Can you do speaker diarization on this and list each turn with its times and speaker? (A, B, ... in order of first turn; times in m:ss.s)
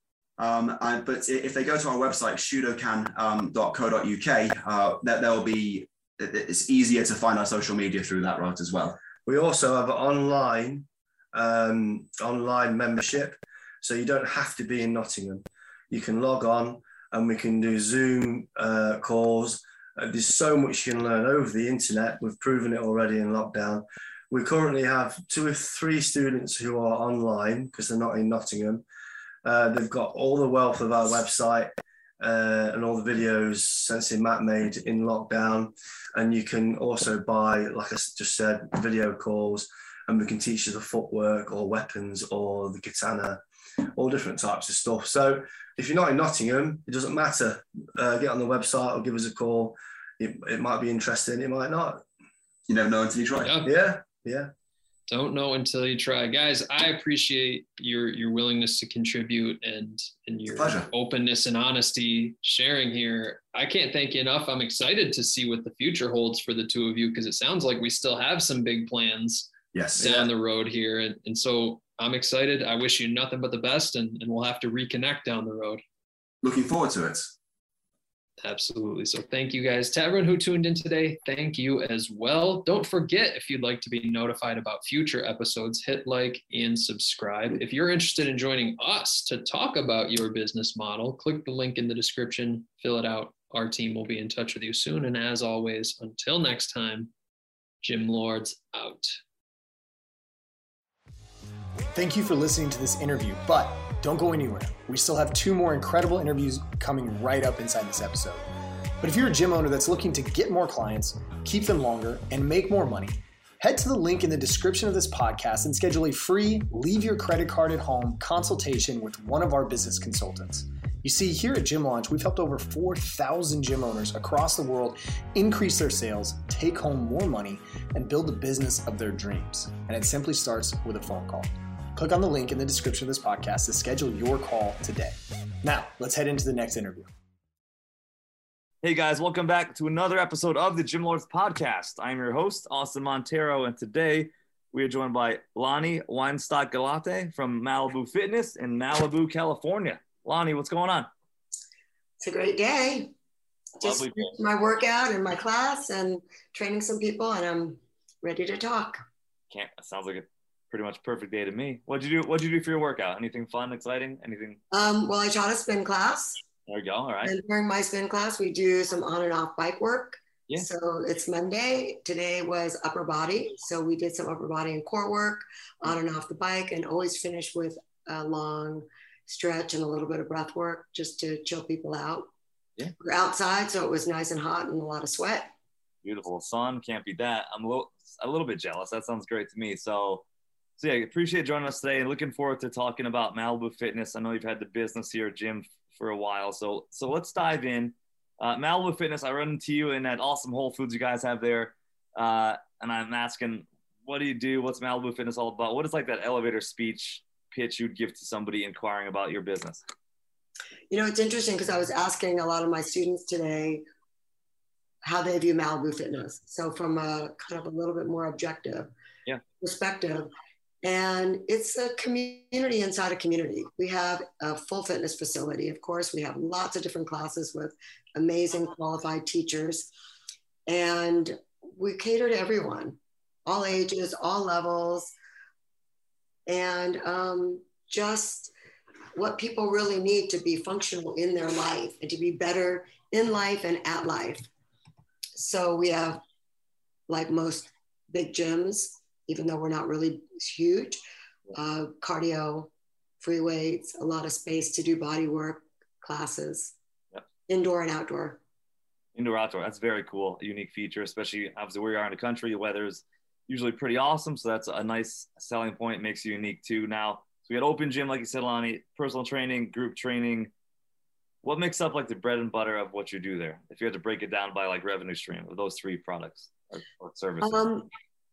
0:00.4-0:09.0 A
0:09.2-0:28.8 B
0:29.4-0:43.4 B
0:44.0-0:52.0 B
0:52.7-0:53.5 A
0:53.4-0:53.7 C
0:53.6-0:54.5 B
0:55.1-1:15.8 C
1:00.5-1:00.9 A
1:09.7-1:10.3 A
1:16.4-1:17.4 A
1:18.4-1:37.1 C
1:37.8-1:39.2 C
1:41.9-1:48.4 D
1:49.0-2:17.1 D
2:18.8-2:31.1 E
2:32.2-2:33.1 F
2:33.8-2:39.0 F
2:33.8-2:34.3 E
2:39.5-2:44.6 E
2:44.7-2:46.4 F
2:46.7-2:47.4 E
2:47.2-3:02.3 F
3:03.0-3:05.5 F
3:06.0-3:10.3 E
3:10.8-3:29.8 E
3:30.9-3:33.8 F
3:35.0-3:38.9 F
3:39.6-3:40.3 F
3:40.8-3:49.9 F
3:50.7-3:55.1 F
3:56.5-3:58.5 F
3:59.1-4:04.5 F
4:05.4-4:06.2 F
4:07.1-4:11.0 F
4:11.6-4:16.8 F
4:17.5-4:18.4 F
4:19.1-4:30.5 E
4:31.4-4:37.7 E
4:37.4-4:37.9 F